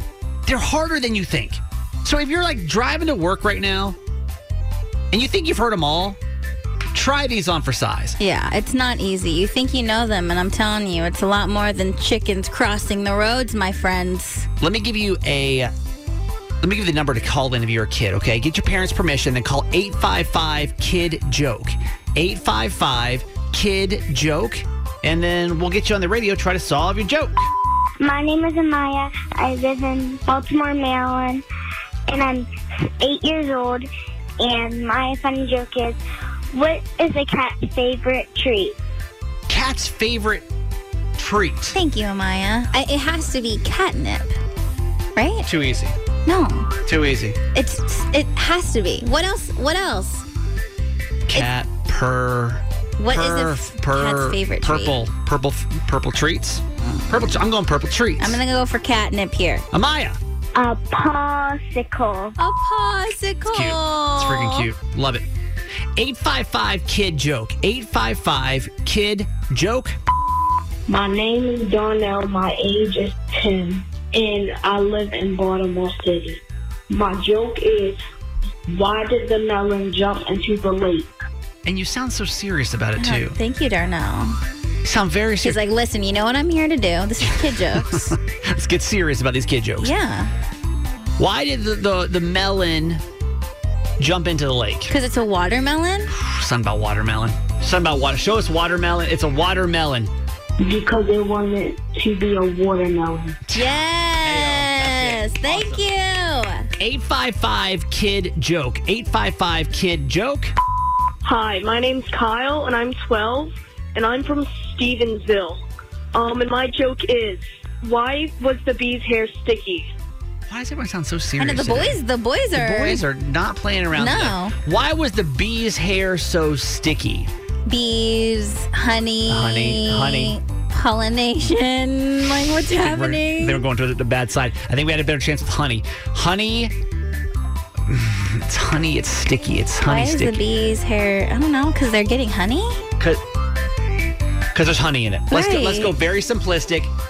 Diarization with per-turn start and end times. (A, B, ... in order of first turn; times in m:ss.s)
0:00.4-0:04.0 A
0:05.1-0:06.2 A
0:06.9-0:08.2 A
0:08.2-0:14.5 B
0:14.6-0:15.7 A
0:16.6-0:27.5 A
0:28.0-0:31.4 C
0:32.1-0:33.9 C
0:34.4-0:36.0 C
0:36.5-0:38.8 C
0:39.5-0:40.4 A
0:41.2-0:41.8 A
0:41.7-0:44.4 B
0:45.2-0:45.5 B
0:45.4-0:45.9 A
0:46.2-0:46.7 B
0:46.9-0:47.4 A
0:47.5-0:50.2 B
0:51.3-0:58.4 A
0:53.0-0:55.0 B
0:56.8-0:57.4 B
0:58.2-0:59.6 B
0:59.7-1:00.2 A
1:00.6-1:02.4 C
1:02.4-1:04.7 B
1:03.5-1:05.2 A
1:06.0-1:10.0 A
1:10.9-1:18.0 D
1:18.7-1:21.1 D
1:21.6-1:23.4 A
1:23.0-1:24.4 B
1:24.8-1:25.6 A
1:25.4-1:28.1 B
1:27.3-1:29.9 A
1:29.8-1:30.3 B
1:31.2-1:33.0 A
1:34.0-1:34.9 A
1:34.9-1:36.1 B
1:36.1-1:40.1 A
1:40.6-1:43.4 D
1:43.5-1:45.8 A
1:43.5-1:46.7 B
1:46.8-1:50.5 A
1:51.2-1:55.6 E
1:56.1-1:59.9 E
2:00.5-2:02.0 A
2:01.4-2:03.0 B
2:02.6-2:07.3 A
2:04.0-2:04.6 B
2:07.7-2:13.6 B
2:09.3-2:10.4 A
2:12.7-2:16.7 A
2:17.9-2:20.4 A
2:19.8-2:22.9 B
2:24.5-2:26.9 A
2:25.3-2:25.9 B